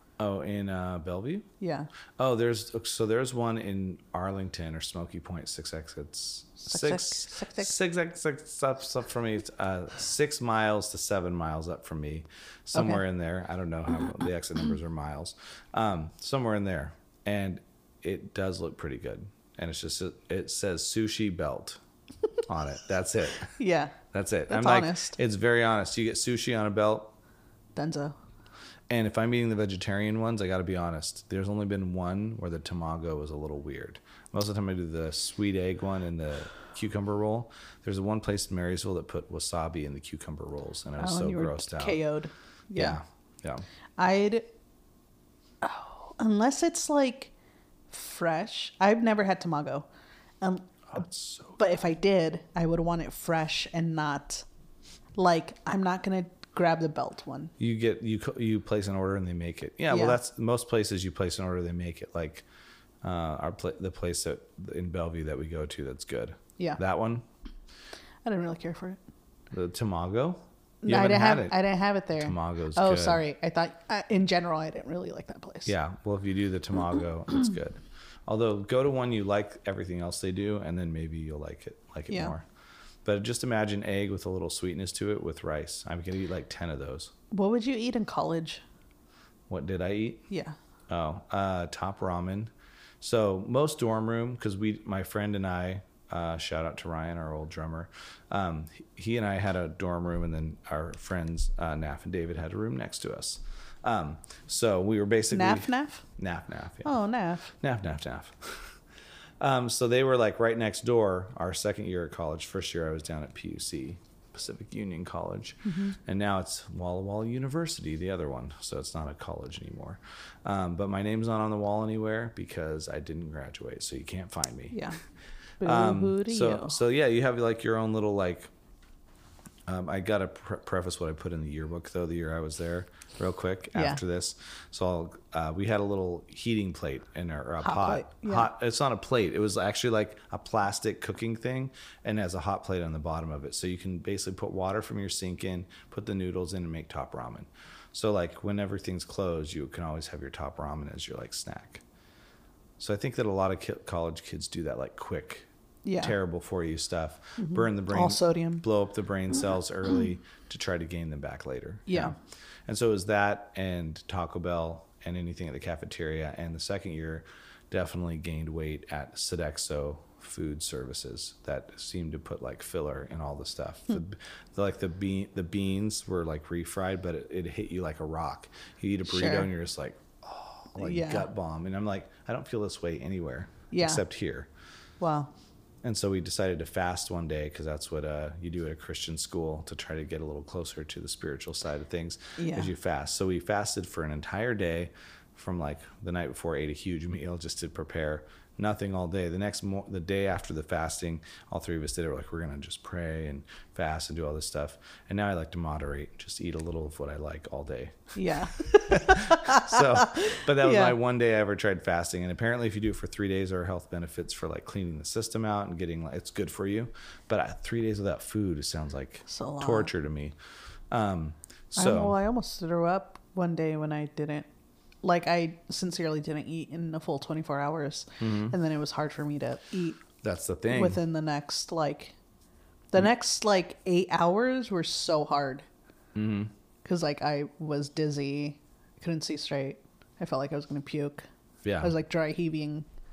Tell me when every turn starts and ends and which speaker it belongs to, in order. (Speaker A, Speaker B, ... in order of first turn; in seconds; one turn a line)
Speaker A: 0.2-1.5
Speaker B: 1.6-1.9
Speaker A: 2.2-21.8
Speaker B: 6.6-7.7
Speaker B: 12.7-13.0
Speaker A: 22.4-23.6
Speaker B: 23.6-25.2
Speaker A: 24.1-27.1
Speaker B: 27.8-28.2
Speaker A: 28.9-42.0
Speaker B: 41.0-43.0
Speaker A: 42.8-43.6
Speaker B: 44.0-44.5
Speaker B: 45.6-47.3
Speaker B: 47.9-49.9
Speaker B: 50.4-50.8
Speaker A: 50.9-51.6
Speaker B: 51.6-54.5
Speaker B: 55.2-57.5
Speaker A: 57.6-62.5
Speaker B: 59.9-60.2
Speaker A: 63.0-67.2
Speaker B: 68.2-69.0
Speaker A: 69.5-71.6
Speaker B: 70.8-75.7
Speaker A: 72.2-73.2
Speaker A: 75.7-82.5
Speaker B: 82.1-82.3
Speaker A: 83.0-87.1
Speaker B: 87.3-88.6
Speaker A: 89.5-90.3
Speaker B: 90.3-90.6
Speaker A: 90.9-107.0
Speaker B: 105.3-106.0
Speaker B: 106.8-107.5
Speaker A: 107.5-108.7
Speaker A: 109.4-124.9
Speaker B: 115.7-116.0
Speaker B: 124.7-125.0
Speaker B: 125.6-126.8
Speaker A: 125.6-128.5
Speaker A: 129.7-151.8
Speaker B: 133.7-134.0
Speaker B: 137.6-138.5
Speaker A: 152.8-155.5
Speaker B: 155.8-156.1
Speaker A: 156.0-162.2
Speaker B: 157.4-158.7
Speaker B: 161.9-162.1
Speaker A: 162.7-184.5
Speaker B: 179.1-179.5
Speaker B: 180.8-181.3
Speaker B: 183.7-184.0
Speaker B: 185.0-185.3
Speaker A: 185.8-220.3
Speaker B: 192.4-192.7
Speaker B: 208.2-211.0
Speaker B: 219.3-219.9
Speaker A: 220.9-222.2
Speaker B: 221.8-224.5
Speaker B: 225.0-230.0
Speaker A: 228.2-228.6
Speaker A: 230.2-231.0
Speaker B: 230.7-232.2
Speaker B: 232.9-235.7
Speaker A: 236.2-236.5
Speaker B: 236.8-241.3
Speaker A: 241.6-241.9
Speaker B: 241.8-242.9